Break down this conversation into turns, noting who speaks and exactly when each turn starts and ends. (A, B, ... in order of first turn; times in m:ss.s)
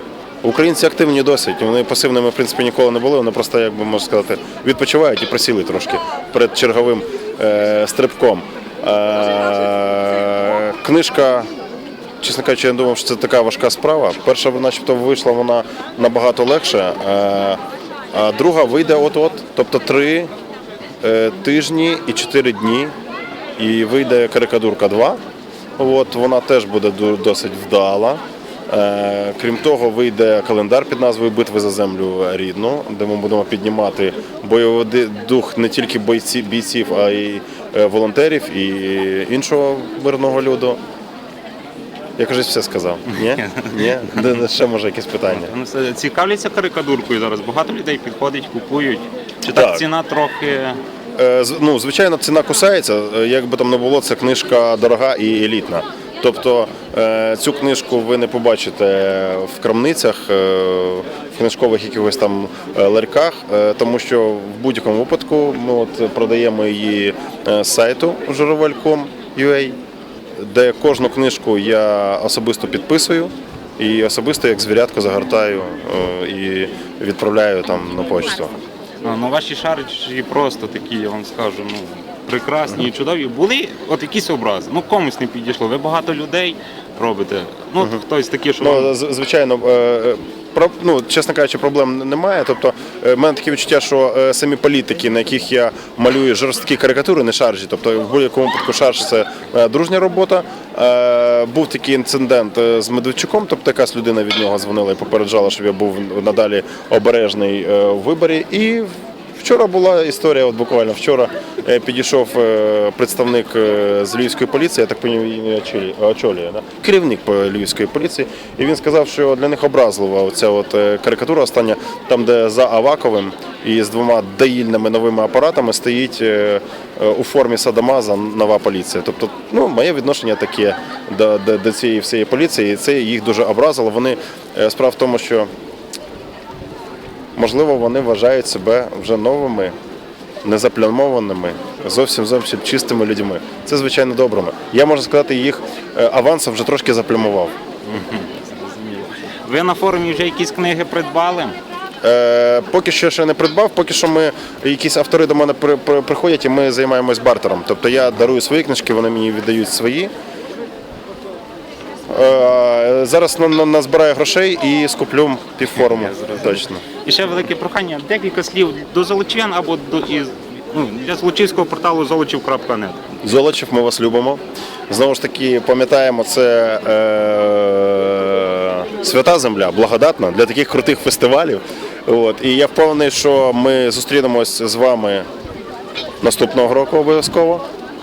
0:00.4-0:11.5 A
0:12.2-0:17.6 A
0:18.1-0:20.3 A
0:21.0-0:22.9 A
0:23.6-0:25.2 A
0:25.8-0:40.8 A
0:42.2-0:45.5 A
0:43.2-0:44.3 B
0:45.3-0:50.8 B
0:49.5-0:49.8 A
0:51.2-1:09.8 A
1:10.4-1:18.6 A
1:19.0-1:28.9 B
1:28.6-2:15.5 A
2:17.4-2:19.7 A
2:20.4-2:27.5 A
2:27.9-2:31.6 B
2:32.0-2:40.1 A
2:42.1-2:46.8 A
2:45.7-2:53.0 B
2:53.2-3:05.2 A
3:06.2-3:07.6 A